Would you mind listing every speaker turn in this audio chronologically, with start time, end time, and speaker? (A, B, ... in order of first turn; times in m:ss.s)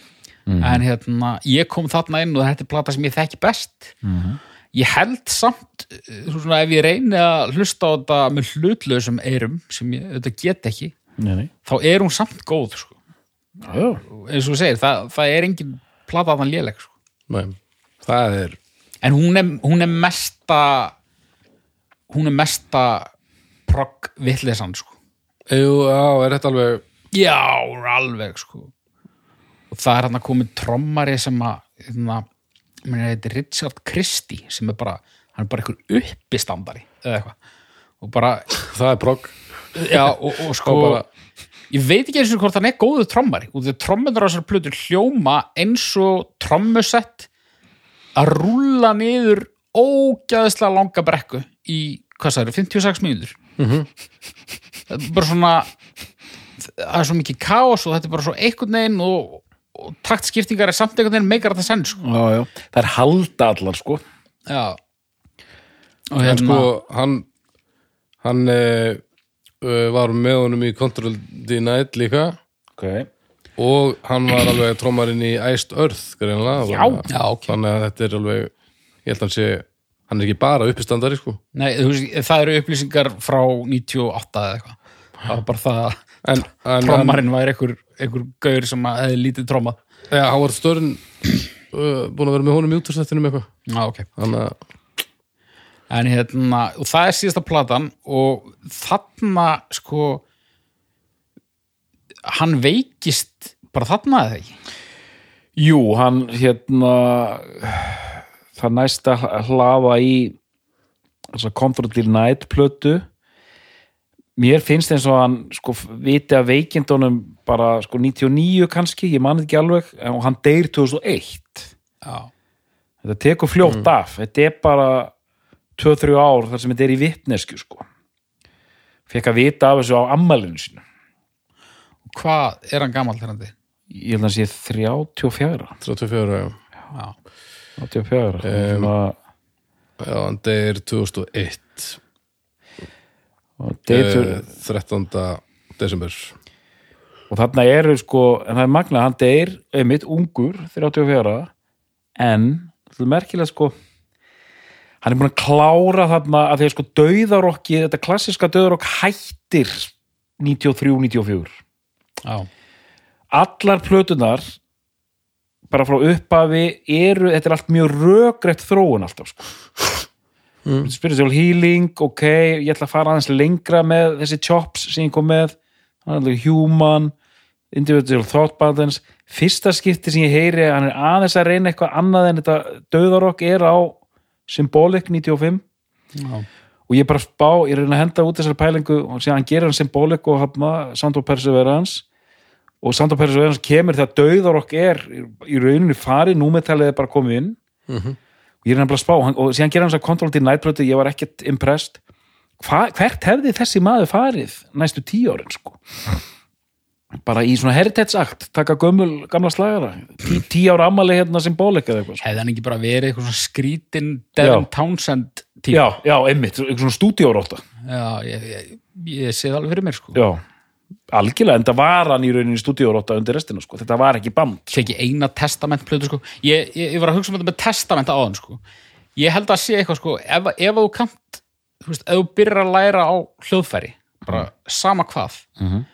0:00.5-0:00.8 A
0:00.6-0:04.0 B
0:04.0-0:04.4 A
0:04.7-0:10.9 B
0:11.2-0:11.5 A
0:11.6-0:13.0 B
0:13.6-0:14.0 A
0:14.1-0:16.9 B
0:17.3-0:18.6 C
0:19.0-0:20.9 B
0:22.1-0:23.1 B
0:23.7-0:25.0 B
0:25.5-0:26.8 C
0:27.1-0:28.7 B
0:29.7-0:32.2 B
0:32.8-0:37.4 B
0:38.0-0:38.6 B
0:38.6-0:39.4 C
0:39.8-0:41.0 B
0:39.9-0:41.0 C
0:41.7-0:47.3 B
0:48.2-0:53.4 B
0:53.6-0:53.9 C
0:54.9-0:55.7 B
0:56.6-1:02.0 B
1:02.0-1:04.0 A
1:04.5-1:04.8 B
1:06.1-1:06.7 B
1:06.2-1:07.3 C
1:08.2-1:09.0 C
1:09.6-1:12.4 C
1:12.8-1:13.1 A
1:13.6-1:18.5 C
1:17.1-1:17.6 B
1:19.0-1:21.4 C
1:21.5-1:26.0 B
1:26.2-1:27.2 C
1:26.8-1:29.8 B
1:30.1-1:31.1 C
1:31.7-1:33.5 C
1:33.7-1:34.1 B
1:34.2-1:34.6 C
1:35.9-1:40.2 B
1:42.2-1:44.6 B
1:45.6-1:50.4 A
1:51.3-1:53.0 A
1:54.4-2:01.7 A
2:02.0-2:02.3 B
2:03.0-2:05.1 A
2:05.8-2:07.8 A
2:09.1-2:10.8 A
2:12.1-2:13.5 B
2:13.9-2:15.8 A
2:15.8-2:16.6 C
2:17.8-2:19.2 A
2:18.4-2:18.9 C
2:20.0-2:22.0 C
2:23.6-2:24.5 A
2:23.9-2:26.3 C
2:27.3-2:31.5 A
2:32.2-2:33.7 A
2:35.0-2:41.5 A
2:43.3-2:44.4 A
2:45.7-2:49.5 A
2:50.6-2:50.9 C
2:50.8-2:57.1 A
2:57.7-3:05.6 A
3:06.2-3:06.5 B
3:06.9-3:12.0 A
3:12.8-3:17.6 A
3:17.9-3:18.2 C
3:18.6-3:22.0 A
3:22.6-3:25.8 A
3:27.2-3:32.2 A
3:32.2-3:35.8 B
3:34.4-3:34.7 A
3:35.7-3:37.6 A
3:37.9-3:40.2 B
3:40.1-3:40.4 A
3:41.1-3:44.9 A
3:44.7-3:48.6 B
3:49.2-3:55.4 B
3:55.6-3:55.9 A